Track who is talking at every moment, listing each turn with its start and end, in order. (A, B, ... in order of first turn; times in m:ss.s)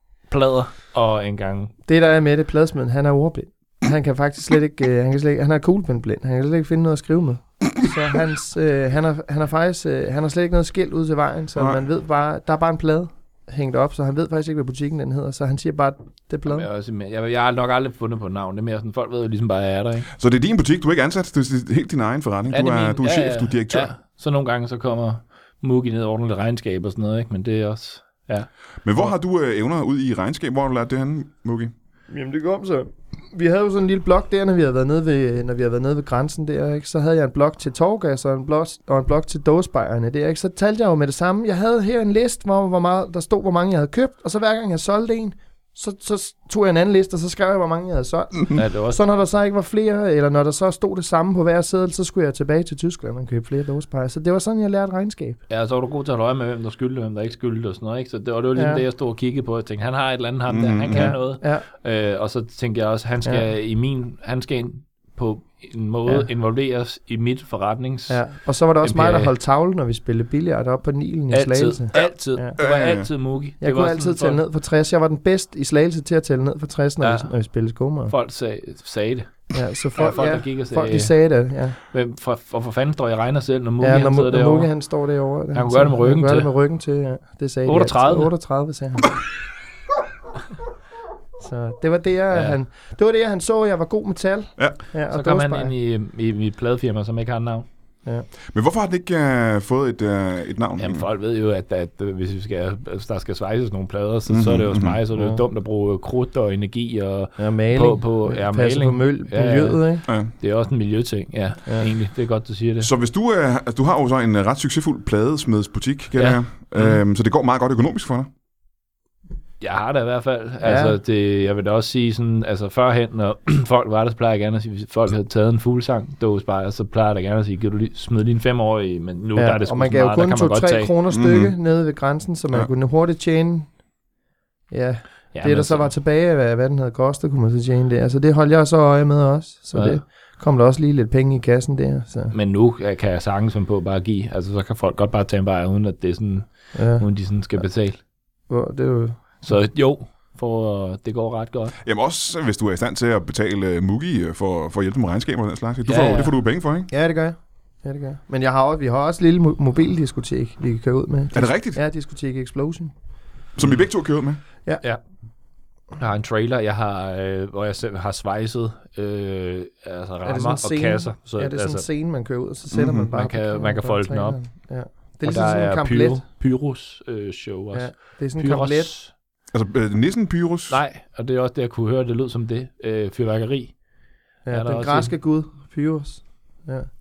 0:00.3-0:01.7 A
0:01.9-0:16.7 B
0:16.5-0:20.1 A
0:20.2-0:23.9 C
0:22.5-0:28.5 A
0:28.8-0:31.7 C
0:32.1-0:55.4 B
0:48.5-0:49.0 A
0:55.5-1:09.3 A
0:58.5-0:58.8 B
1:00.5-1:01.2 C
1:00.9-1:01.6 B
1:08.1-1:12.6 B
1:11.3-1:14.4 A
1:12.0-1:13.1 C
1:13.6-1:18.1 B
1:17.0-1:17.3 A
1:18.1-1:21.1 A
1:19.5-1:21.8 B
1:21.9-1:24.7 A
1:23.8-1:29.1 B
1:25.5-1:26.5 A
1:27.6-1:28.3 A
1:31.4-1:35.7 B
1:32.3-1:32.6 A
1:35.1-1:37.6 A
1:38.5-1:41.0 C
1:40.8-1:52.9 A
1:44.3-1:45.0 C
1:45.1-1:45.4 B
1:47.4-1:50.0 B
1:52.8-1:58.3 C
1:56.2-1:57.0 A
1:59.6-2:10.9 A
2:00.6-2:01.0 B
2:09.3-2:13.7 B
2:11.1-2:11.5 C
2:14.7-2:22.3 B
2:15.3-2:15.9 A
2:19.7-2:20.0 A
2:22.3-2:28.0 A
2:26.7-2:27.0 B
2:28.5-2:29.4 B
2:29.4-2:31.7 A
2:31.8-2:36.9 C
2:35.9-2:36.3 A
2:36.9-2:42.9 B
2:41.3-2:41.8 C
2:43.6-2:44.4 C
2:46.0-2:51.8 A
2:50.2-2:56.2 B
2:52.7-2:53.1 C
2:53.1-2:54.4 A
2:55.2-2:59.1 A
2:57.7-2:58.9 B
2:59.5-3:00.8 C
3:00.7-3:03.7 A
3:04.4-3:06.9 B
3:04.5-3:05.1 A